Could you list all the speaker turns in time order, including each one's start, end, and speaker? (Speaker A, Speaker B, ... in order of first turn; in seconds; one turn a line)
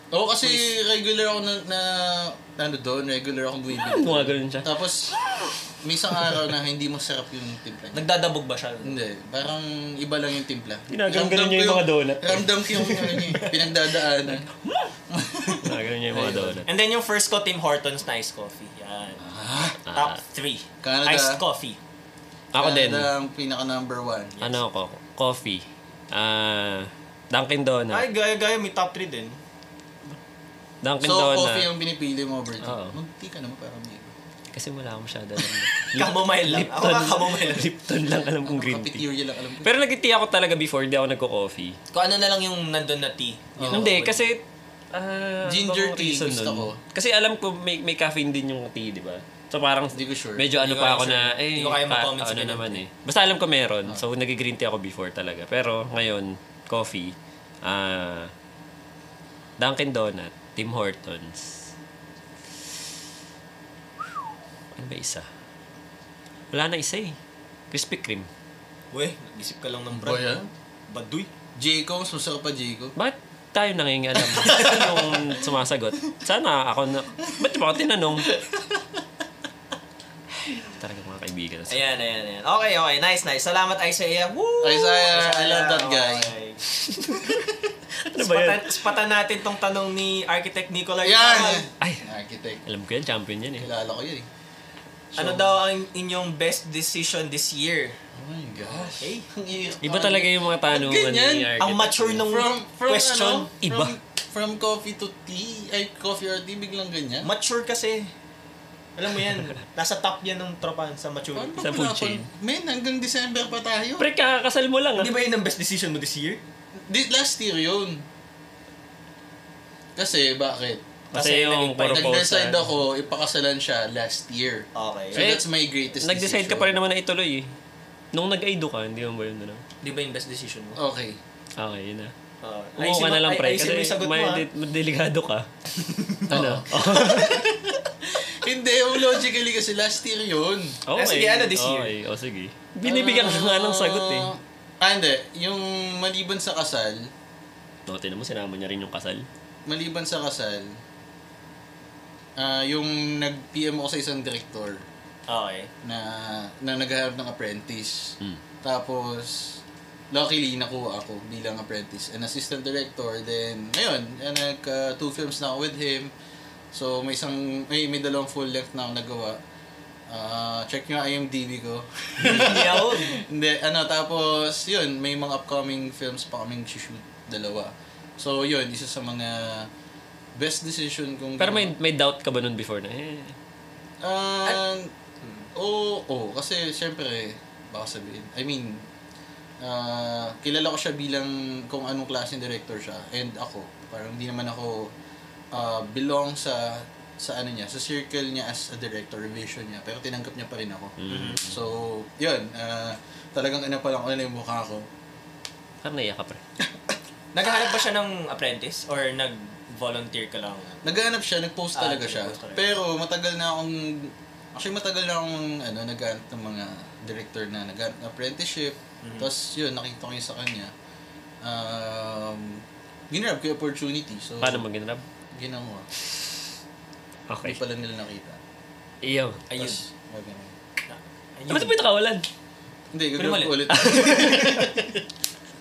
Speaker A: 0.1-5.2
Speaker B: 3.7-5.5
Speaker A: 5.8-8.1
Speaker C: 7.9-8.9
Speaker A: 8.8-14.5
Speaker B: 10.9-13.7
Speaker B: 14.2-14.9
Speaker A: 15.1-16.7
Speaker B: 15.6-16.7
Speaker C: 16.7-19.2
Speaker A: 19.2-19.8
Speaker B: 19.9-20.2
Speaker C: 19.9-21.8
Speaker A: 20.8-21.4
Speaker B: 22.5-23.1
Speaker A: 22.6-24.4
Speaker B: 24.4-28.1
Speaker C: 27.9-29.4
Speaker B: 30.8-31.7
Speaker A: 31.0-34.1
Speaker B: 32.6-33.0
Speaker B: 34.5-39.0
Speaker C: 36.0-37.7
Speaker A: 38.4-39.7
Speaker B: 39.6-41.8
Speaker C: 41.9-44.3
Speaker A: 43.6-43.9
Speaker B: 43.7-58.3
Speaker A: 45.5-46.8
Speaker A: 49.9-50.5
Speaker C: 50.6-52.8
Speaker B: 59.6-61.6
Speaker B: 64.8-65.3
Speaker B: 66.5-67.2
Speaker B: 67.7-68.3
Speaker C: 68.9-70.3
Speaker A: 70.0-70.5
Speaker C: 70.9-71.3
Speaker A: 71.6-73.0
Speaker B: 73.0-78.3
Speaker A: 74.3-75.2
Speaker A: 78.3-78.8
Speaker B: 80.8-81.8
Speaker C: 81.7-86.6
Speaker A: 84.6-86.3
Speaker B: 86.8-87.4
Speaker B: 88.0-88.7
Speaker C: 88.2-91.7
Speaker A: 91.0-92.6
Speaker B: 91.8-92.0
Speaker B: 92.7-93.7
Speaker A: 93.6-94.3
Speaker A: 95.1-95.5
Speaker C: 95.2-98.0
Speaker A: 98.1-101.5
Speaker C: 99.0-99.3
Speaker B: 99.8-102.3
Speaker C: 101.6-103.5
Speaker A: 102.2-107.3
Speaker B: 103.6-104.0
Speaker C: 107.2-108.1
Speaker C: 109.0-111.6
Speaker A: 111.3-114.1
Speaker B: 111.6-112.3
Speaker B: 114.0-115.1
Speaker C: 115.0-116.4
Speaker A: 116.9-118.0
Speaker A: 120.0-120.8
Speaker B: 121.1-122.7
Speaker C: 121.1-122.2
Speaker A: 121.8-126.8
Speaker C: 124.8-125.3
Speaker B: 125.2-125.5
Speaker B: 126.0-127.5
Speaker B: 128.1-129.6
Speaker C: 129.8-130.8
Speaker A: 130.8-131.2
Speaker B: 131.6-132.1
Speaker C: 132.4-134.4
Speaker B: 132.8-135.5
Speaker C: 135.8-136.3
Speaker A: 136.3-140.8
Speaker B: 136.3-137.5
Speaker B: 140.9-144.3
Speaker C: 140.9-141.9
Speaker A: 142.8-147.1
Speaker B: 147.9-149.3
Speaker A: 149.7-150.8
Speaker A: 152.4-154.8
Speaker C: 155.3-155.7
Speaker A: 155.8-159.6
Speaker A: 160.1-166.1
Speaker A: 166.7-169.4
Speaker A: 170.1-179.7
Speaker C: 172.2-173.2
Speaker A: 180.4-181.7
Speaker B: 181.4-183.4
Speaker A: 184.0-184.9
Speaker A: 185.6-188.8
Speaker A: 189.6-194.9
Speaker A: 195.5-204.9
Speaker B: 201.0-201.6
Speaker C: 201.1-201.4
Speaker B: 205.8-206.4
Speaker C: 207.3-211.0
Speaker A: 210.8-220.7
Speaker C: 211.7-212.7
Speaker C: 219.0-219.3
Speaker A: 221.4-224.7
Speaker B: 224.4-225.1
Speaker A: 225.3-225.9
Speaker B: 227.3-227.6
Speaker A: 227.4-228.4
Speaker B: 229.0-229.4
Speaker C: 229.5-229.8
Speaker A: 229.6-230.5
Speaker C: 230.9-231.8
Speaker B: 231.5-232.3
Speaker A: 232.9-235.0
Speaker C: 233.2-234.7
Speaker B: 233.7-234.6